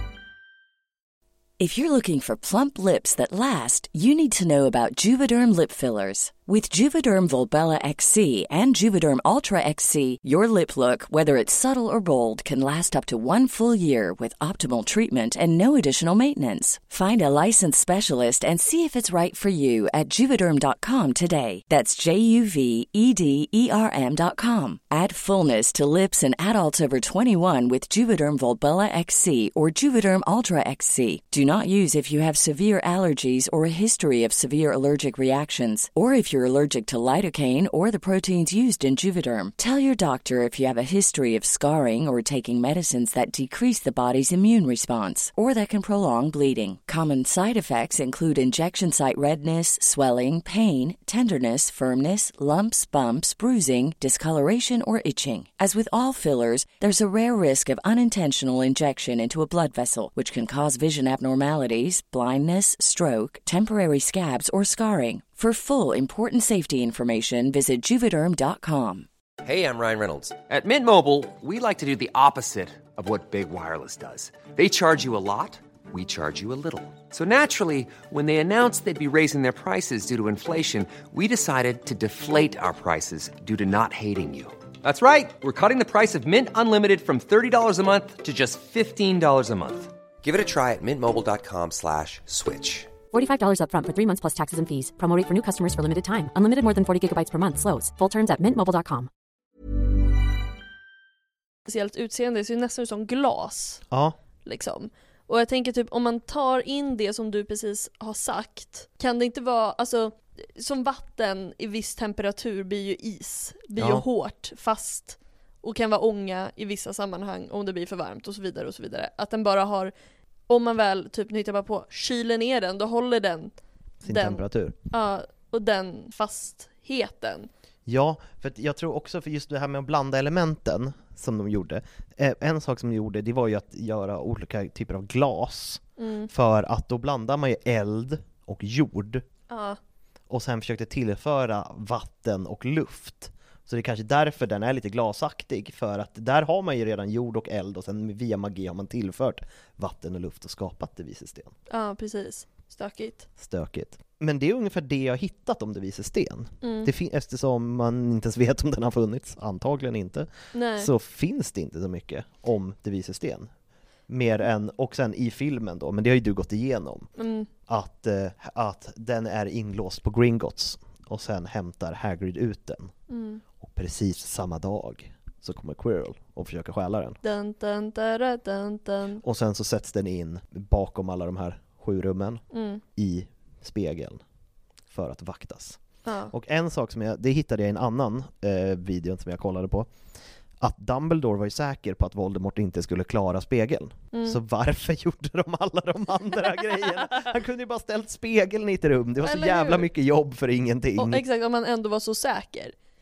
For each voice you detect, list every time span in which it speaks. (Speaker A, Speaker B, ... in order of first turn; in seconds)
Speaker A: 1.6-69.1
Speaker B: 69.4-89.9
Speaker C: 90.2-92.9
Speaker D: 93.1-99.1
Speaker E: 101.7-103.8, 104.4-119.9, 120.5-123.5, 124.0-127.5, 136.0-136.3, 139.5-139.8, 151.7-153.3, 156.6-156.9, 160.5-160.9, 167.2-167.5, 173.1-173.4, 177.2-179.2, 182.5-182.8, 186.0-186.3, 194.1-194.4, 199.2-199.9, 201.0-202.7
Speaker F: 103.9-104.2, 113.8-114.0, 124.0-124.7, 127.8-139.2, 140.3-151.5, 153.4-163.5, 164.1-167.1, 167.7-172.9, 173.6-177.2, 179.2-182.4, 182.9-184.2, 184.9-185.8, 186.3-189.9, 190.6-201.2